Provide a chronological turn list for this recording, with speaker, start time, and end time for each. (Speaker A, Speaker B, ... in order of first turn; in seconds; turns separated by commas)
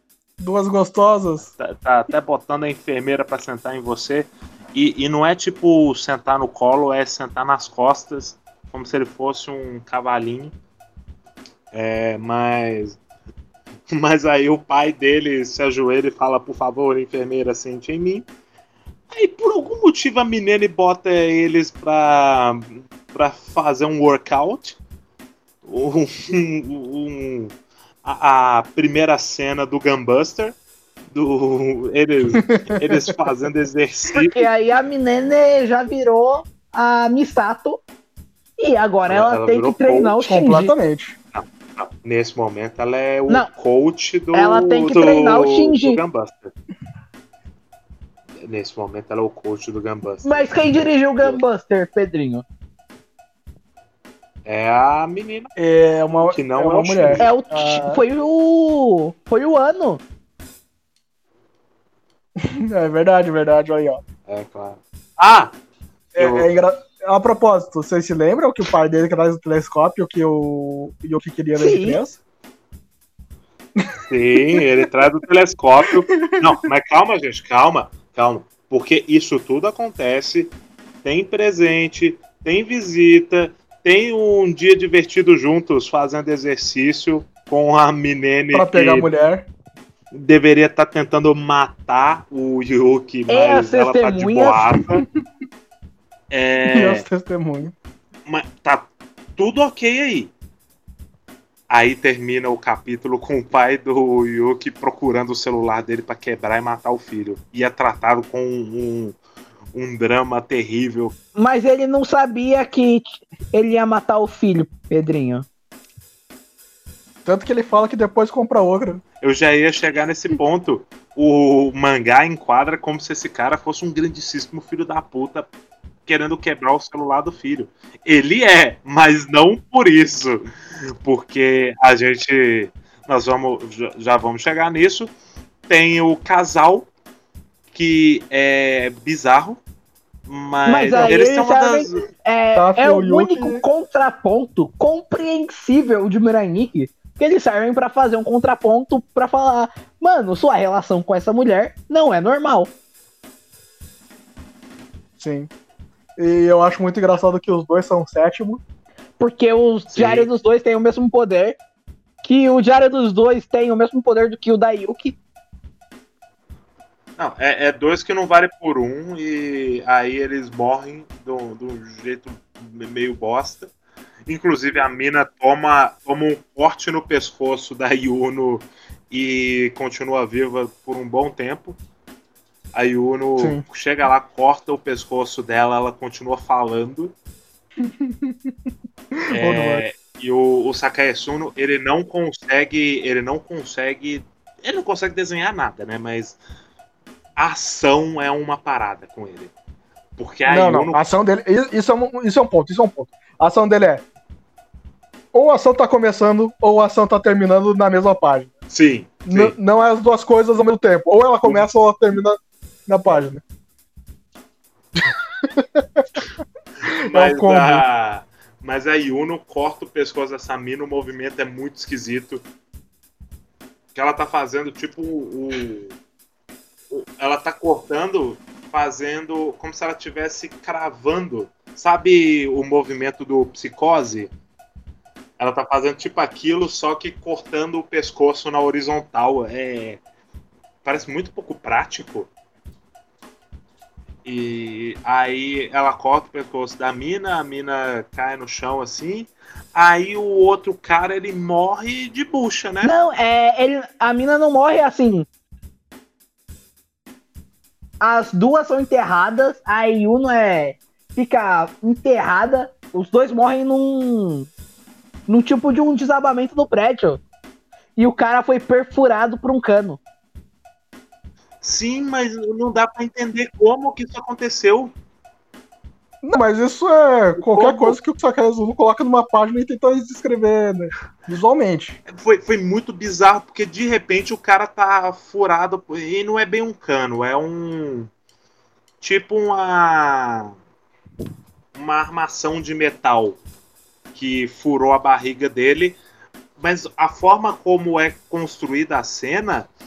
Speaker A: 0.4-1.5, Speaker B: 1.6-10.5, Speaker B: 11.7-13.0, Speaker B: 13.9-18.3, Speaker B: 19.1-24.8, Speaker B: 25.6-30.6, Speaker B: 31.1-34.5, Speaker A: 32.4-33.2, Speaker C: 34.1-37.8, Speaker C: 38.6-40.7, Speaker B: 39.1-40.3, Speaker A: 40.2-41.2, Speaker B: 41.3-46.5, Speaker C: 44.3-46.0, Speaker B: 48.4-51.4, Speaker C: 50.2-52.5, Speaker B: 54.5-55.5, Speaker A: 55.6-58.0, Speaker B: 56.2-57.3, Speaker C: 57.2-60.0, Speaker A: 62.4-64.0, Speaker B: 64.3-65.5, Speaker A: 66.1-72.2, Speaker B: 66.2-66.5, Speaker C: 71.6-72.0, Speaker A: 73.8-74.9, Speaker B: 74.1-89.1, Speaker A: 75.8-76.5, Speaker A: 88.5-89.5, Speaker B: 90.1-95.1, Speaker C: 93.3-94.7, Speaker B: 96.3-97.1, Speaker A: 96.7-97.8, Speaker B: 98.3-100.3, Speaker B: 101.7-109.2, Speaker B: 109.7-111.1, Speaker C: 111.4-115.5, Speaker A: 117.2-119.0, Speaker B: 119.2-125.5, Speaker B: 126.1-135.1, Speaker B: 135.7-136.9, Speaker B: 137.7-139.6, Speaker B: 140.3-142.0, Speaker C: 140.7-152.7, Speaker A: 142.6-143.6, Speaker A: 155.2-155.5, Speaker A: 156.2-158.6, Speaker C: 159.2-161.6, Speaker B: 159.9-160.3, Speaker C: 162.2-165.2, Speaker B: 167.2-173.7, Speaker B: 174.3-181.8, Speaker B: 182.7-187.1, Speaker A: 183.4-183.6, Speaker A: 187.8-188.5, Speaker A: 189.2-189.8, Speaker B: 189.3-196.4, Speaker B: 197.4-199.5, Speaker B: 200.2-201.1, Speaker A: 200.5-204.0, Speaker A: 205.3-208.5, Speaker B: 208.7-209.6, Speaker A: 209.3-213.4, Speaker A: 215.4-216.1, Speaker B: 216.9-222.4, Speaker A: 216.9-217.8, Speaker B: 223.9-225.9, Speaker B: 226.9-234.3, Speaker B: 235.4-240.0, Speaker B: 240.8-242.3, Speaker B: 244.2-252.9, Speaker C: 252.8-255.3, Speaker C: 258.0-264.5, Speaker C: 265.3-267.2, Speaker C: 268.0-270.0, Speaker B: 271.6-274.9, Speaker A: 276.2-282.0, Speaker B: 277.4-278.0, Speaker B: 282.1-288.1, Speaker B: 289.0-290.5, Speaker B: 291.8-293.4, Speaker B: 294.1-296.0, Speaker B: 296.6-299.7